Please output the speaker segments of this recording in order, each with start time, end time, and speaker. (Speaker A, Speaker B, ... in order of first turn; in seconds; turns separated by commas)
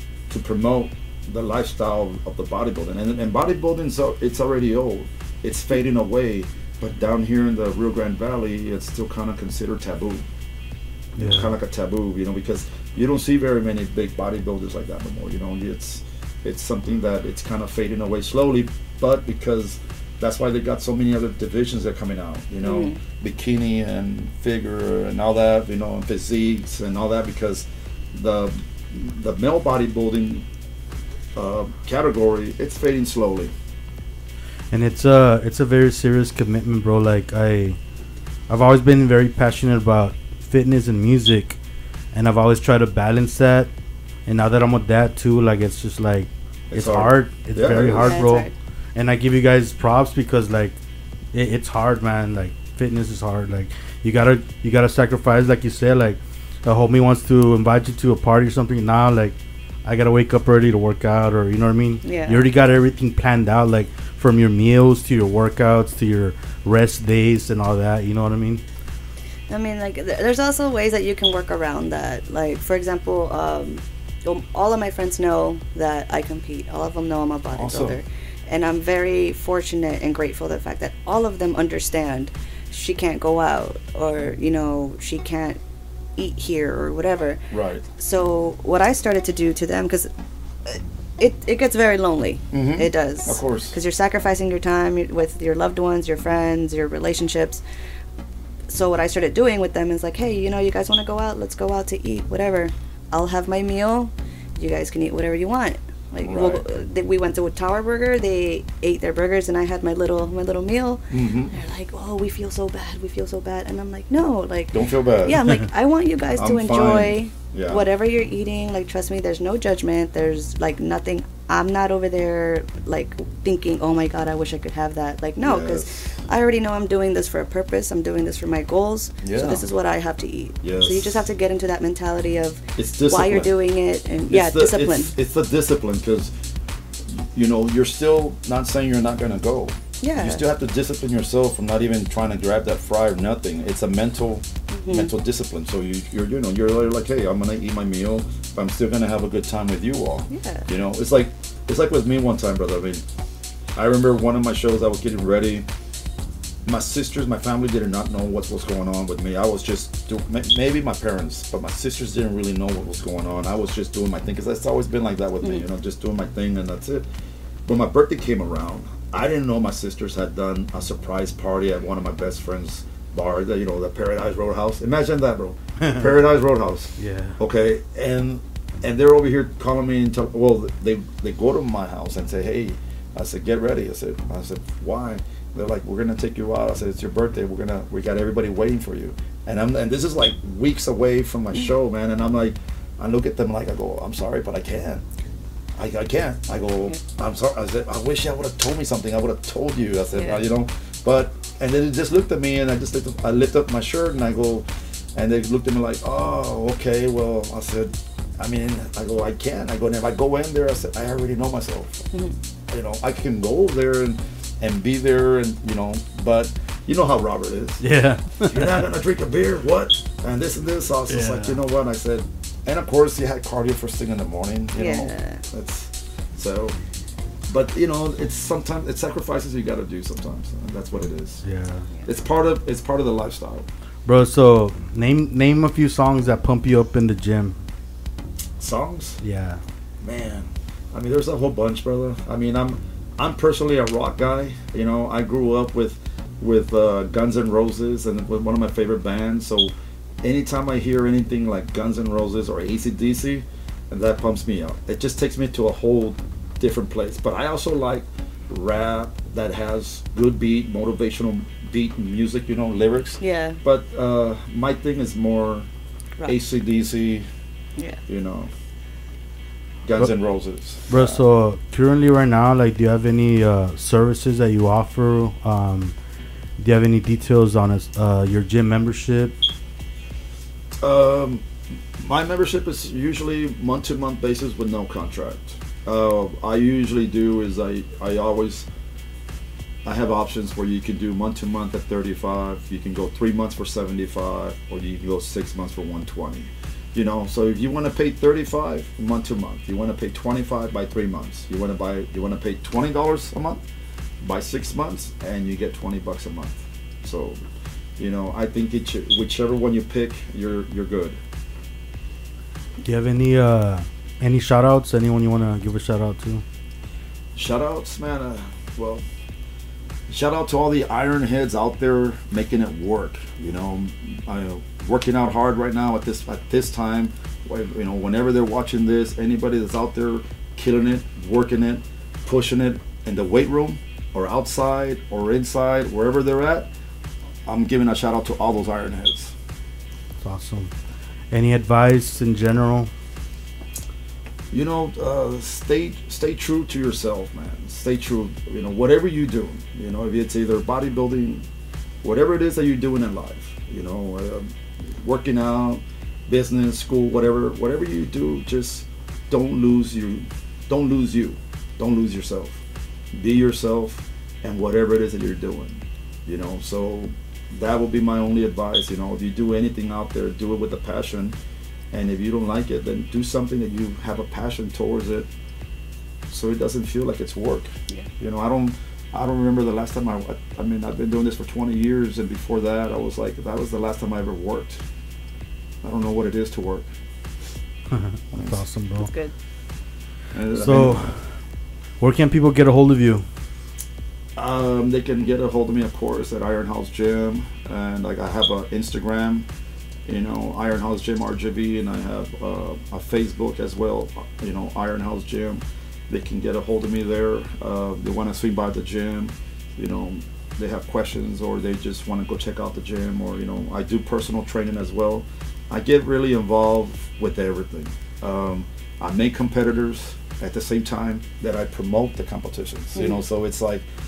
Speaker A: 0.3-10.2, Speaker B: 11.2-11.5, Speaker A: 11.2-30.4, Speaker C: 22.6-23.0, Speaker A: 31.3-33.5, Speaker B: 34.7-37.8, Speaker B: 38.5-41.6, Speaker B: 42.1-43.7, Speaker B: 44.2-50.8, Speaker A: 46.7-48.2, Speaker C: 47.9-48.5, Speaker B: 51.3-68.6, Speaker C: 62.0-62.4, Speaker C: 69.5-85.6, Speaker A: 77.5-78.0, Speaker C: 86.2-87.4, Speaker A: 87.5-87.8, Speaker C: 88.0-90.1, Speaker C: 90.6-97.6, Speaker A: 92.5-93.8, Speaker C: 98.7-135.1, Speaker A: 106.2-106.6, Speaker A: 111.1-111.5, Speaker A: 114.7-115.6, Speaker A: 116.3-117.8, Speaker A: 125.4-126.2, Speaker A: 129.2-129.7, Speaker A: 130.6-131.3, Speaker A: 132.8-133.5, Speaker A: 134.3-136.3, Speaker A: 137.1-153.0, Speaker C: 140.0-140.4, Speaker C: 144.7-145.1, Speaker C: 150.3-150.7, Speaker A: 153.7-155.7, Speaker A: 156.7-167.0, Speaker A: 167.7-195.0, Speaker B: 177.0-177.4, Speaker A: 195.8-212.1, Speaker A: 212.7-217.8, Speaker B: 217.8-218.7, Speaker A: 218.4-226.8, Speaker B: 221.1-221.6, Speaker C: 224.8-225.4, Speaker A: 227.5-231.4, Speaker B: 231.4-231.8, Speaker A: 232.1-233.7, Speaker B: 234.1-237.6, Speaker A: 238.6-239.2, Speaker B: 239.2-239.6, Speaker A: 240.0-265.7, Speaker C: 263.2-263.6, Speaker A: 266.2-267.2, Speaker A: 268.1-268.5, Speaker A: 269.8-271.2, Speaker B: 270.9-275.9, Speaker B: 276.6-279.4, Speaker A: 280.8-281.4, Speaker A: 282.0-288.7, Speaker A: 289.8-303.6, Speaker A: 304.2-307.4, Speaker A: 308.0-311.2, Speaker B: 312.8-316.4, Speaker A: 317.3-319.0, Speaker A: 320.1-336.7, Speaker A: 337.4-339.3, Speaker B: 340.2-340.7, Speaker B: 341.3-342.9, Speaker A: 344.5-351.4, Speaker A: 352.0-362.6, Speaker A: 363.1-371.3, Speaker A: 371.9-375.3, Speaker A: 376.3-384.8, Speaker A: 385.8-386.9, Speaker B: 387.9-389.1, Speaker A: 388.3-388.6, Speaker C: 389.0-389.3, Speaker A: 390.3-391.2, Speaker B: 390.5-391.2, Speaker B: 392.0-393.2, Speaker A: 394.4-399.5, Speaker A: 400.1-423.9, Speaker C: 422.9-423.2